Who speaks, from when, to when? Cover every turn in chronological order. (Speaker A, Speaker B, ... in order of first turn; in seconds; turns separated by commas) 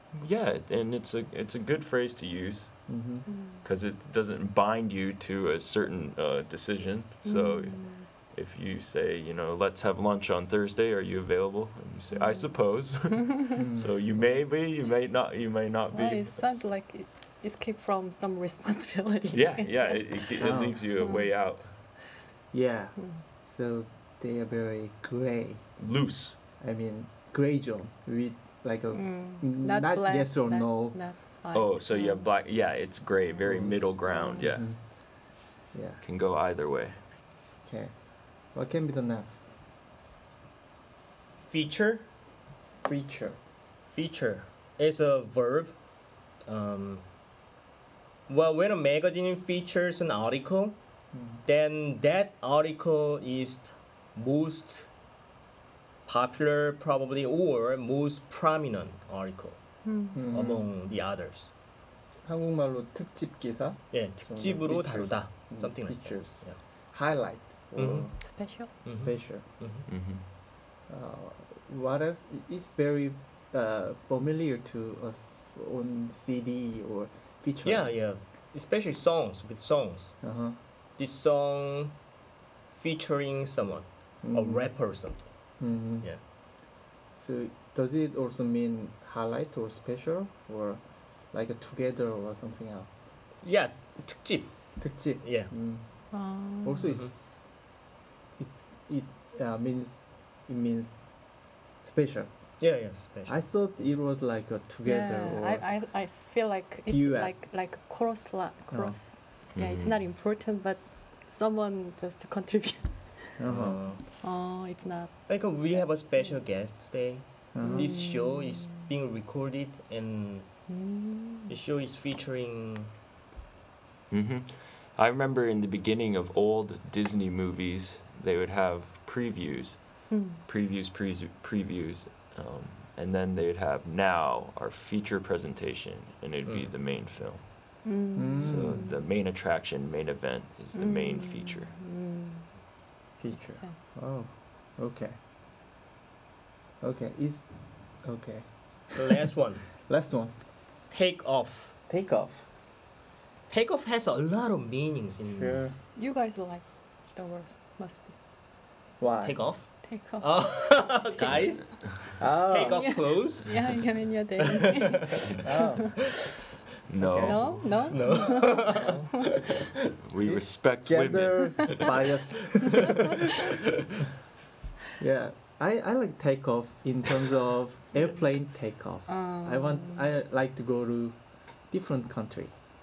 Speaker A: 0.1-2.9, Speaker B: 2.9-3.2, Speaker C: 3.3-3.6, Speaker A: 3.6-16.4, Speaker C: 7.2-8.1, Speaker C: 12.1-12.5, Speaker B: 13.5-14.2, Speaker C: 15.9-20.1, Speaker A: 19.3-21.7, Speaker B: 20.4-20.8, Speaker C: 21.0-21.3, Speaker B: 22.5-25.7, Speaker A: 25.8-26.4, Speaker B: 26.6-31.0, Speaker C: 28.9-32.3, Speaker A: 31.5-34.7, Speaker B: 33.5-33.8, Speaker C: 34.1-34.5, Speaker B: 34.4-34.8, Speaker B: 35.7-36.0, Speaker A: 36.0-37.0, Speaker B: 37.6-37.9, Speaker B: 38.5-39.4, Speaker D: 41.5-42.0, Speaker B: 42.8-43.4, Speaker D: 43.9-45.7, Speaker D: 46.5-47.0, Speaker D: 48.3-50.8, Speaker B: 51.1-51.4, Speaker D: 51.4-54.9, Speaker D: 56.0-59.6, Speaker C: 59.8-60.2, Speaker B: 60.1-60.7, Speaker D: 60.3-61.5, Speaker B: 62.2-68.2, Speaker D: 63.9-66.6, Speaker D: 67.8-68.1, Speaker C: 68.2-68.7, Speaker B: 68.8-69.4, Speaker D: 68.8-69.8, Speaker A: 69.9-70.2, Speaker B: 70.9-77.9, Speaker D: 77.6-80.2, Speaker B: 80.2-80.5, Speaker D: 81.0-81.9, Speaker D: 82.7-85.3, Speaker B: 84.2-84.7, Speaker B: 85.6-86.1, Speaker B: 87.1-90.8, Speaker B: 91.3-93.0, Speaker D: 93.4-95.5, Speaker B: 94.8-95.8, Speaker C: 96.1-96.9, Speaker B: 96.5-97.1, Speaker B: 98.4-101.0, Speaker B: 101.8-102.3, Speaker D: 102.6-103.4, Speaker B: 103.2-105.6, Speaker C: 104.8-113.4, Speaker B: 106.9-107.3, Speaker B: 108.7-109.0, Speaker A: 109.5-110.0, Speaker B: 113.4-113.8, Speaker D: 113.5-114.0, Speaker C: 114.1-116.5, Speaker D: 115.3-120.5, Speaker B: 117.5-117.9, Speaker C: 117.6-118.7, Speaker C: 120.7-121.5, Speaker D: 121.5-122.9, Speaker A: 124.1-137.8, Speaker C: 130.1-130.4, Speaker C: 137.8-138.9, Speaker B: 138.1-138.8, Speaker A: 138.4-141.8, Speaker C: 140.7-142.5, Speaker B: 143.2-145.2, Speaker C: 143.3-143.9, Speaker B: 146.8-147.4, Speaker B: 148.0-150.3, Speaker D: 148.9-149.7, Speaker D: 150.9-151.7, Speaker B: 151.9-152.4, Speaker D: 153.5-155.6, Speaker B: 155.3-155.8, Speaker C: 155.9-158.1, Speaker B: 159.0-159.4, Speaker D: 159.2-163.7, Speaker C: 159.8-161.6, Speaker A: 161.2-161.8, Speaker B: 162.1-163.0, Speaker C: 162.6-166.1, Speaker D: 164.6-165.2, Speaker B: 165.4-166.1, Speaker A: 166.9-167.8, Speaker B: 167.0-167.6, Speaker C: 167.2-169.0, Speaker D: 167.9-169.6, Speaker B: 168.7-169.3, Speaker A: 170.0-171.9, Speaker B: 170.2-173.0, Speaker C: 171.6-171.8, Speaker B: 175.0-182.6, Speaker C: 179.1-180.1